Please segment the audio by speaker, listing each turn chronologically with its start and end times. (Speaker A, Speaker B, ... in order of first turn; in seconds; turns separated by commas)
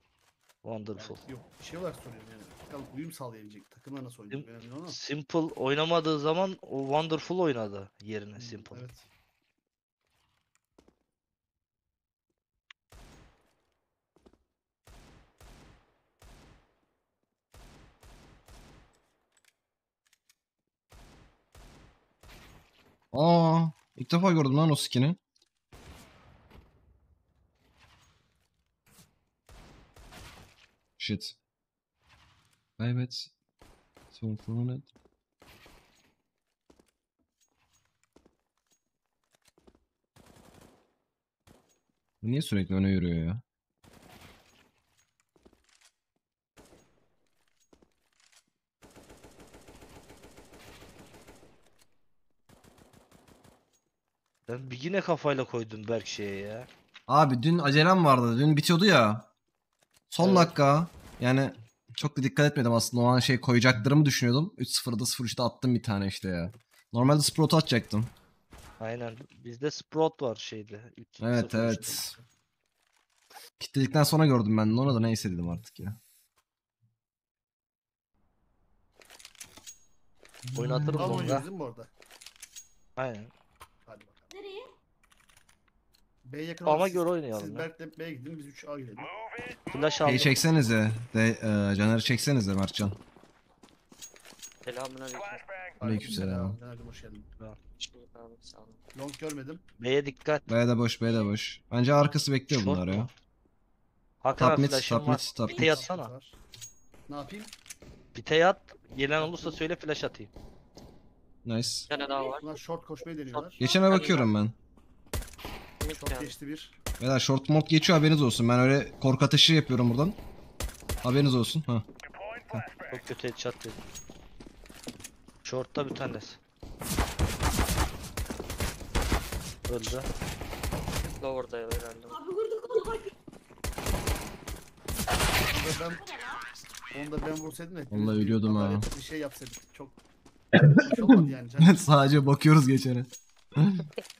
Speaker A: 0.6-1.2, Speaker B: 1.0-5.0, Speaker A: 4.3-8.9, Speaker B: 8.4-9.0, Speaker C: 23.1-25.2, Speaker C: 31.0-31.4, Speaker C: 32.8-33.3, Speaker C: 34.1-34.9, Speaker C: 42.2-43.4, Speaker A: 54.5-56.7, Speaker C: 57.1-59.3, Speaker C: 60.1-68.1, Speaker A: 60.2-60.5, Speaker A: 68.8-72.0, Speaker C: 71.2-72.1, Speaker B: 72.0-72.2, Speaker C: 73.6-76.0, Speaker C: 80.4-81.4, Speaker A: 80.5-81.5, Speaker B: 81.0-81.9, Speaker A: 83.0-83.3, Speaker B: 83.8-84.3, Speaker D: 84.3-84.7, Speaker B: 86.2-89.1, Speaker A: 86.7-87.7, Speaker A: 89.7-90.3, Speaker C: 90.0-93.0, Speaker E: 94.6-95.5, Speaker B: 95.8-97.3, Speaker C: 95.8-96.6, Speaker E: 97.8-98.8, Speaker B: 98.9-99.6, Speaker A: 99.8-100.5, Speaker C: 100.5-103.1, Speaker A: 102.5-103.1, Speaker A: 104.2-106.1, Speaker C: 104.3-105.8, Speaker B: 105.1-106.4, Speaker B: 107.1-107.5, Speaker A: 108.1-110.3, Speaker B: 109.2-109.6, Speaker C: 111.4-111.9, Speaker E: 111.9-112.5, Speaker D: 111.9-112.4, Speaker B: 112.4-113.6, Speaker E: 113.3-114.3, Speaker C: 113.6-114.5, Speaker D: 113.6-114.1, Speaker E: 115.8-116.3, Speaker B: 115.8-116.8, Speaker C: 117.0-120.2, Speaker C: 121.0-121.8, Speaker A: 122.9-123.8, Speaker A: 125.4-126.4, Speaker A: 129.7-130.1, Speaker E: 131.2-132.2, Speaker D: 132.1-133.1, Speaker B: 135.5-136.1, Speaker D: 135.9-136.4, Speaker B: 136.9-140.0, Speaker C: 137.9-138.9, Speaker C: 140.6-143.8, Speaker B: 140.8-141.8